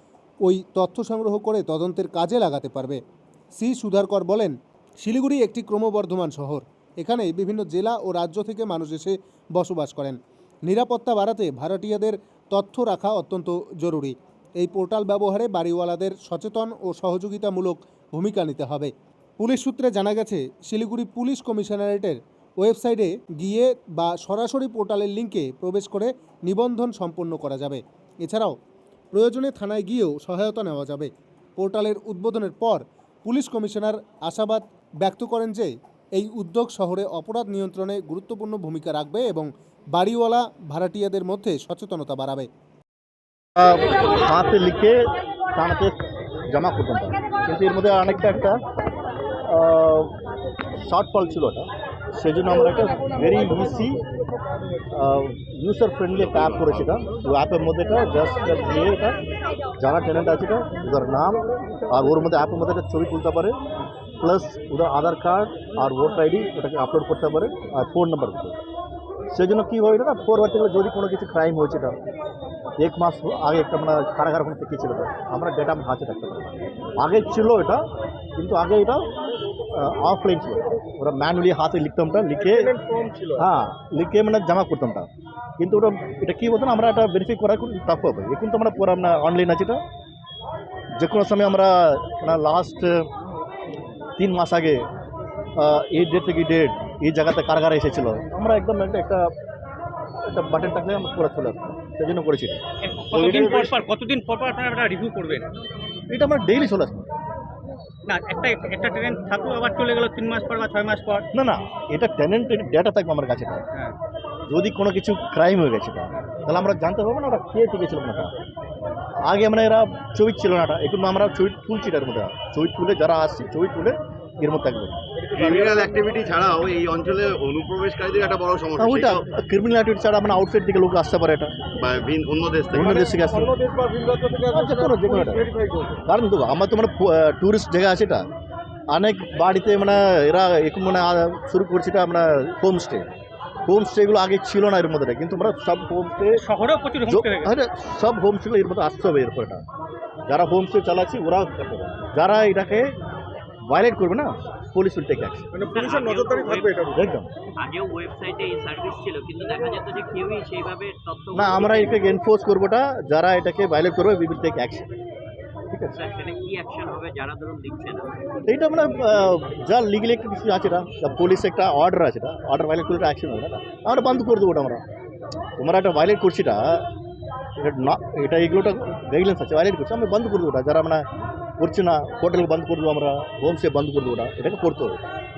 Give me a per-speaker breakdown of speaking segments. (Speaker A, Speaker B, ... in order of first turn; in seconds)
Speaker A: 0.4-3.0, 3.6-28.6, 29.1-42.5
Speaker B: 43.6-46.0, 46.5-48.6, 49.5-50.1, 50.8-54.0, 54.9-59.2, 59.8-63.6, 64.2-68.5, 69.3-72.0, 72.8-77.8, 78.4-79.0, 79.7-82.7, 83.4-85.1, 85.6-89.8, 91.0-93.0, 94.2-94.8, 95.6-99.2, 100.3-102.6, 106.1-107.1, 111.3-113.6, 114.5-118.3, 119.2-125.0, 128.8-131.5, 132.7-133.5, 134.5-135.5, 136.1-138.2, 138.9-143.1, 143.7-146.4, 147.1-149.6, 150.3-152.9, 153.7-155.5, 156.9-157.3, 161.3-164.9, 165.7-165.9, 168.4-174.8, 175.6-176.8, 177.6-181.0, 181.6-185.0
Speaker C: 56.2-57.0, 103.1-103.8, 125.3-129.2, 131.8-132.9
Speaker D: 82.4-83.5, 125.2-126.2, 132.8-136.0, 155.5-157.1
Speaker E: 102.8-105.5, 108.1-111.2, 146.3-147.5
Speaker F: 155.6-156.9, 157.6-162.1, 165.9-168.1